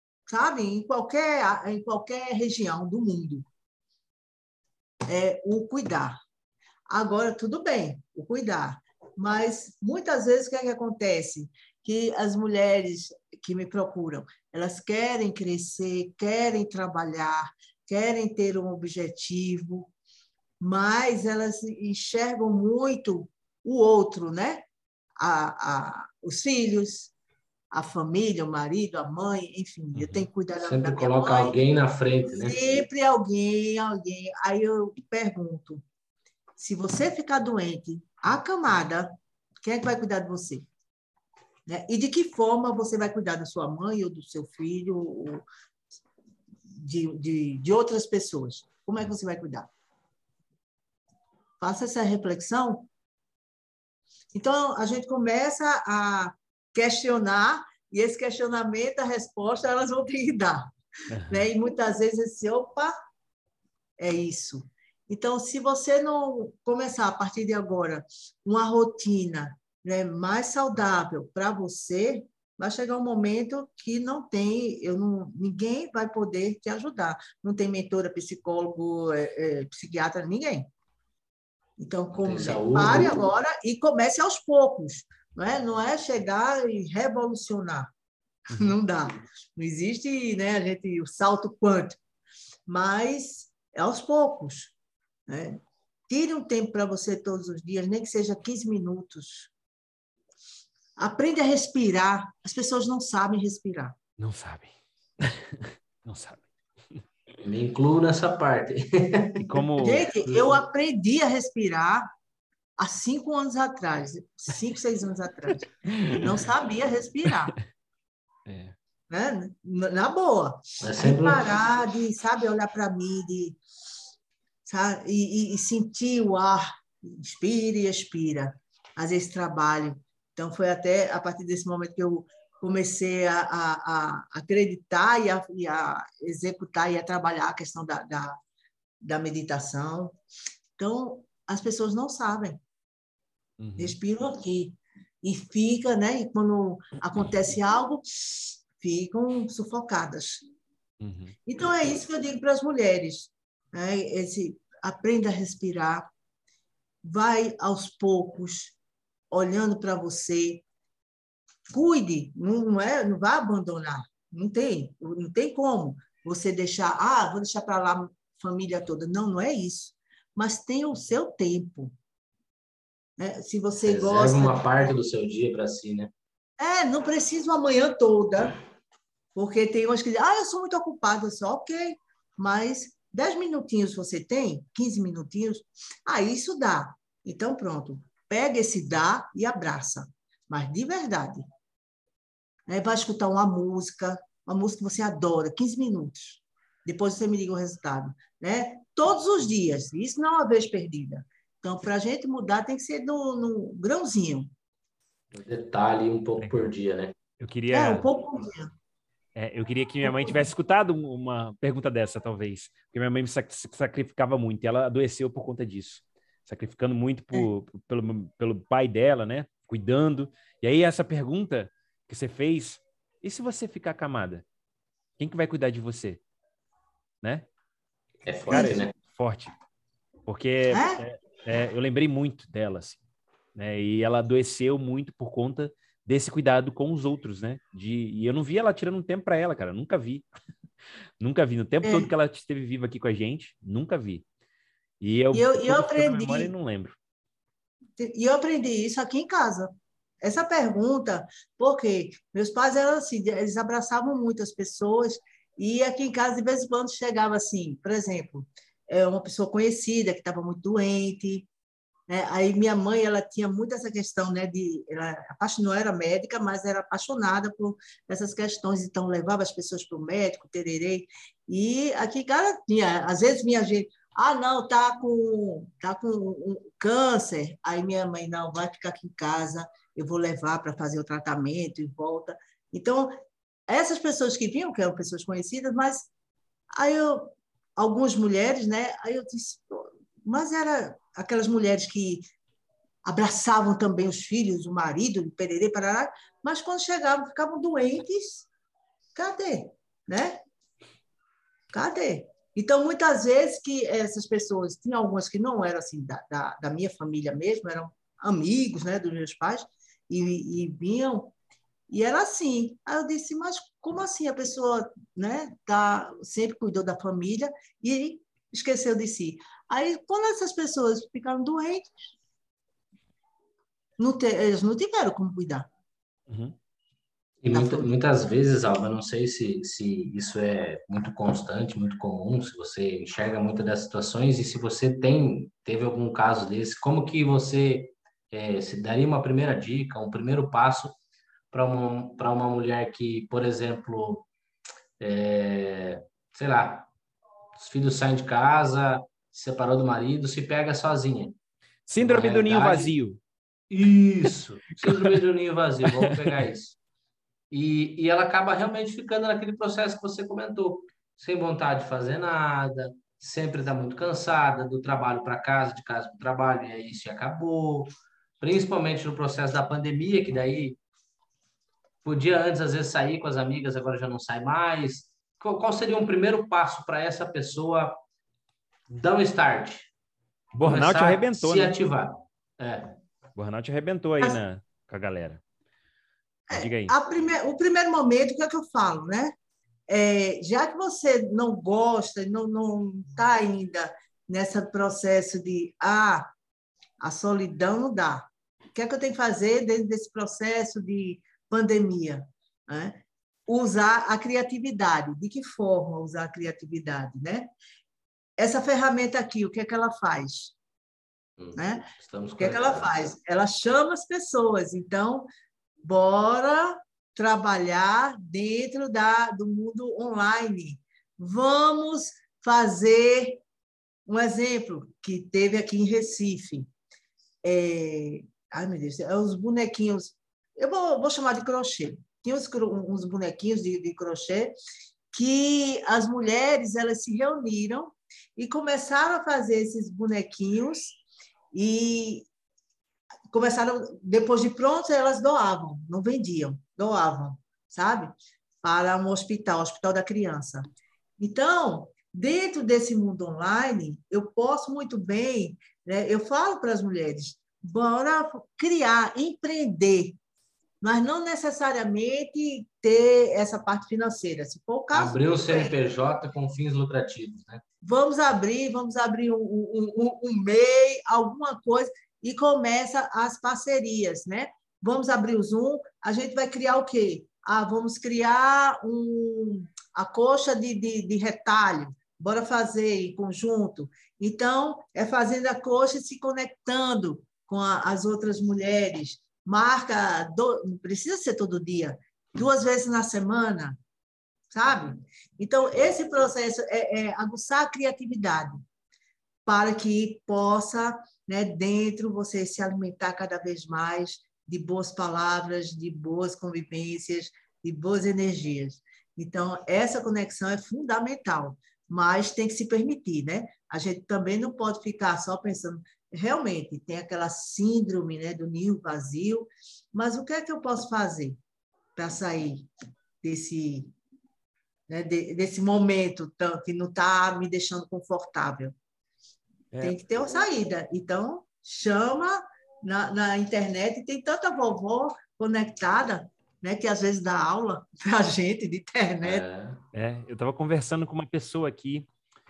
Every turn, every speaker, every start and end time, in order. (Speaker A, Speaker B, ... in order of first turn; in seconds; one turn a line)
Speaker A: 0.3-3.5
Speaker A: 5.1-6.2
Speaker A: 6.9-19.9
Speaker A: 20.6-24.7
Speaker A: 25.2-27.1
Speaker A: 27.7-31.6
Speaker B: 29.9-30.3
Speaker C: 30.6-32.8
Speaker A: 32.4-35.8
Speaker A: 36.6-40.7
Speaker A: 41.7-45.4
Speaker A: 46.7-49.7
Speaker A: 51.6-52.9
Speaker A: 54.3-62.9
Speaker B: 61.1-61.4
Speaker A: 64.0-80.7
Speaker A: 81.8-87.9
Speaker C: 82.2-83.2
Speaker A: 88.5-92.0
Speaker A: 92.7-94.7
Speaker A: 95.3-99.5
Speaker A: 101.0-104.0
Speaker B: 104.2-107.0
Speaker C: 107.4-109.5
Speaker B: 109.4-110.0
Speaker A: 109.8-112.1
Speaker C: 110.2-110.5
Speaker A: 112.8-117.5
Speaker B: 115.9-116.4
Speaker B: 118.5-118.7
Speaker A: 119.1-123.6
Speaker C: 120.8-121.5
Speaker A: 124.7-138.4
Speaker A: 139.0-140.2
Speaker A: 140.8-142.6
Speaker B: 143.6-144.0
Speaker A: 143.8-150.4
Speaker B: 151.0-151.3
Speaker A: 151.4-156.1
Speaker A: 157.0-158.7
Speaker A: 159.3-160.6
Speaker A: 161.7-171.9
Speaker A: 173.2-174.9
Speaker C: 173.8-176.1
Speaker A: 176.6-178.5
Speaker A: 179.3-191.4
Speaker A: 192.7-204.5
Speaker C: 205.3-207.1
Speaker B: 206.4-206.7
Speaker B: 207.4-208.1
Speaker A: 207.7-208.7
Speaker B: 209.3-224.4
Speaker A: 210.0-210.4
Speaker B: 225.2-226.2
Speaker C: 228.2-228.9
Speaker A: 228.5-228.8
Speaker B: 228.5-229.5
Speaker B: 230.3-233.0
Speaker A: 230.7-231.0
Speaker B: 233.5-240.3
Speaker B: 241.2-244.2
Speaker A: 241.8-242.1
Speaker B: 245.0-246.9
Speaker A: 245.3-246.5
Speaker A: 248.0-261.5
Speaker A: 262.1-283.1
Speaker A: 283.7-286.1
Speaker A: 286.7-292.2
Speaker A: 293.0-298.5
Speaker A: 299.1-300.4
Speaker A: 301.7-311.3
Speaker A: 311.9-321.9
Speaker A: 324.0-325.7
Speaker B: 326.3-326.5
Speaker C: 327.4-340.9
Speaker A: 327.5-327.9
Speaker C: 341.5-344.3
Speaker C: 345.0-346.9
Speaker C: 347.6-351.3
Speaker B: 351.9-353.2
Speaker C: 352.0-352.9
Speaker C: 353.7-356.8
Speaker B: 354.8-355.2
Speaker B: 355.8-356.4
Speaker C: 357.5-370.8
Speaker C: 372.0-378.0
Speaker C: 378.9-379.9
Speaker B: 380.5-381.7
Speaker C: 380.6-382.9
Speaker B: 383.4-385.4
Speaker A: 386.5-389.3
Speaker B: 386.5-386.9
Speaker A: 389.9-396.3
Speaker A: 397.0-407.5
Speaker A: 408.4-410.5
Speaker C: 411.4-413.0
Speaker A: 411.5-415.3
Speaker A: 415.8-423.4
Speaker A: 424.1-426.7
Speaker A: 427.4-434.5
Speaker A: 435.1-441.0
Speaker A: 441.5-442.3
Speaker A: 443.3-448.1
Speaker A: 448.6-450.6
Speaker A: 451.2-460.2
Speaker A: 460.8-465.7
Speaker C: 464.9-467.6
Speaker A: 467.8-493.8
Speaker A: 494.5-498.6
Speaker A: 499.4-521.4
Speaker A: 522.0-522.7
Speaker A: 523.2-523.9
Speaker A: 524.9-528.7
Speaker B: 529.7-530.0
Speaker A: 529.8-539.4
Speaker C: 539.2-539.8
Speaker B: 539.9-542.1